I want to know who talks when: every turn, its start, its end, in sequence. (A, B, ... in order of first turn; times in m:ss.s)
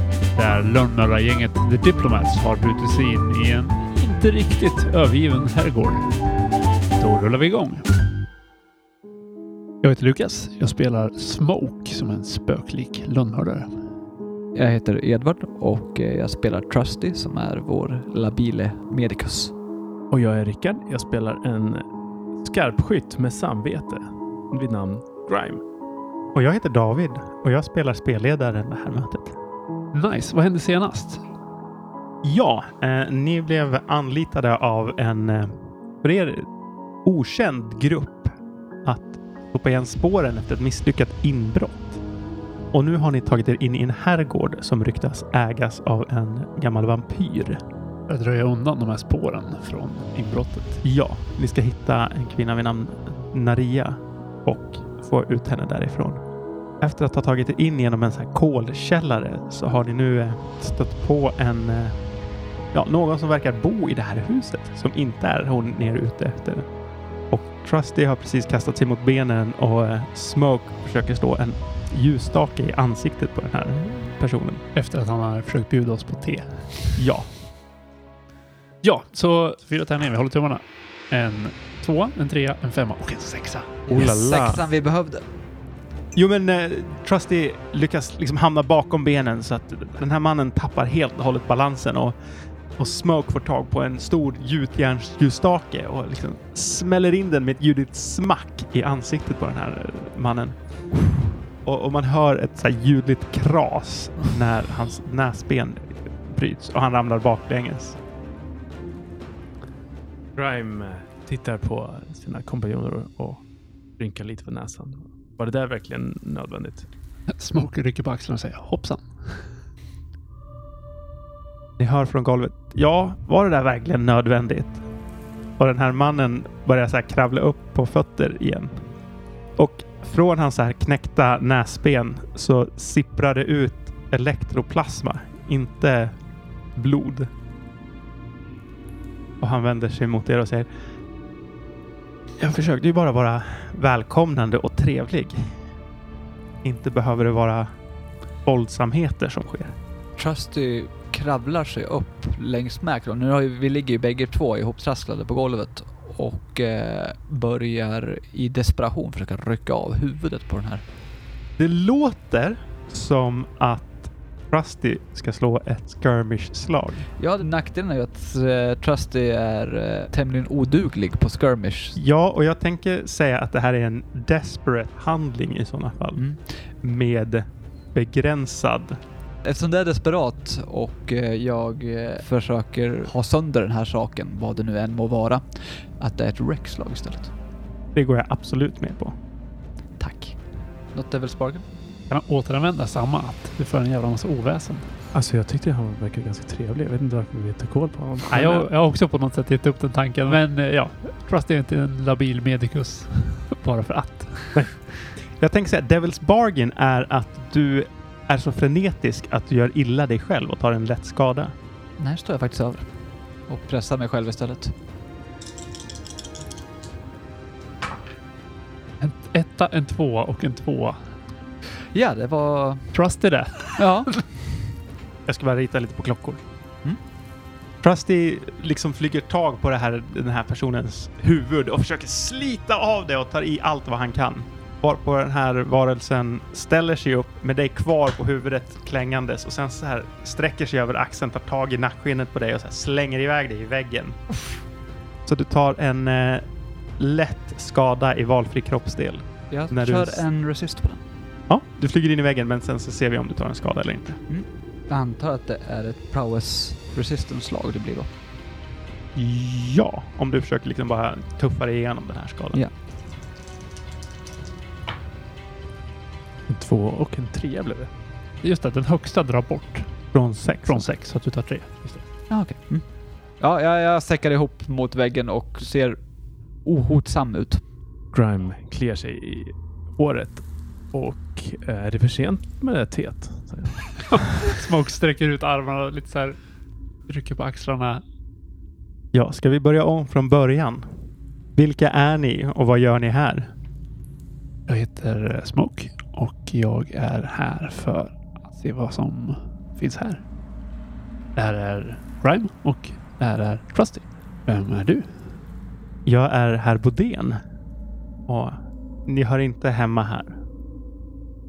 0:00.3-0:06.1 A
0:07.0-0:07.9 A
0:09.8-0:13.8 A
0:14.5-0:19.5 B
0:20.1-0:21.8 C
0:22.4-0:25.6 C
0:26.3-0:29.3 D
0:29.9-0:31.2 A
0:32.2-0:36.5 D
0:37.0-0:38.3 D
0:38.8-0:42.0 D
0:42.7-0:47.6 D
0:48.1-0:50.8 A
0:50.8-0:56.2 D
0:56.8-1:02.0 D
1:02.7-1:06.7 D
1:07.3-1:14.6 D
1:14.7-1:17.0 A
1:17.0-1:17.3 D
1:18.8-1:23.8 A
1:23.9-1:25.2 B
1:23.9-1:24.6 C
1:26.1-1:32.1 D
1:32.8-1:41.1 D
1:41.6-1:48.0 D
1:50.4-1:53.4 C
1:54.0-1:56.8 C
1:57.3-1:59.4 A
2:01.8-2:04.8 D
2:05.6-2:08.8 D
2:09.6-2:16.1 D
2:16.7-2:17.3 D
2:19.4-2:20.7 D
2:22.4-2:25.5 D
2:26.6-2:27.7 D
2:28.4-2:29.7 D
2:30.2-2:40.8 B
2:41.6-2:47.1 D
2:47.2-2:52.0 B
2:52.0-2:56.2 D
2:56.8-2:59.0 D
2:59.4-3:07.3 B
3:07.9-3:09.1 D
3:10.0-3:10.4 B
3:10.9-3:11.6 B
3:12.1-3:14.9 A
3:15.1-3:18.7 C
3:18.3-3:24.6 A
3:25.4-3:31.5 D
3:32.0-3:32.9 B
3:33.5-3:34.7 B
3:39.0-3:41.0 A
3:41.9-3:42.9 B
3:42.9-3:44.2 A
3:43.8-3:44.1 B
3:45.2-3:46.4 D
3:47.8-4:04.2 D
4:05.2-4:06.4 D
4:07.0-4:10.2 D
4:09.5-4:11.0 B
4:11.5-4:14.2 D
4:14.3-4:18.1 B
4:19.1-4:22.6 D
4:26.5-4:27.9 C
4:28.4-4:29.9 A
4:30.1-4:30.9 D
4:30.6-4:31.9 A
4:32.3-4:32.8 B
4:33.4-4:36.0 B
4:36.6-4:37.6 B
4:38.1-4:44.1 C
4:44.1-4:46.4 A
4:47.1-4:48.0 A
4:49.1-4:50.9 D
4:51.6-4:53.5 D
4:54.7-5:00.2 A
5:01.4-5:05.1 A
5:06.0-5:07.4 D
5:08.3-5:10.4 D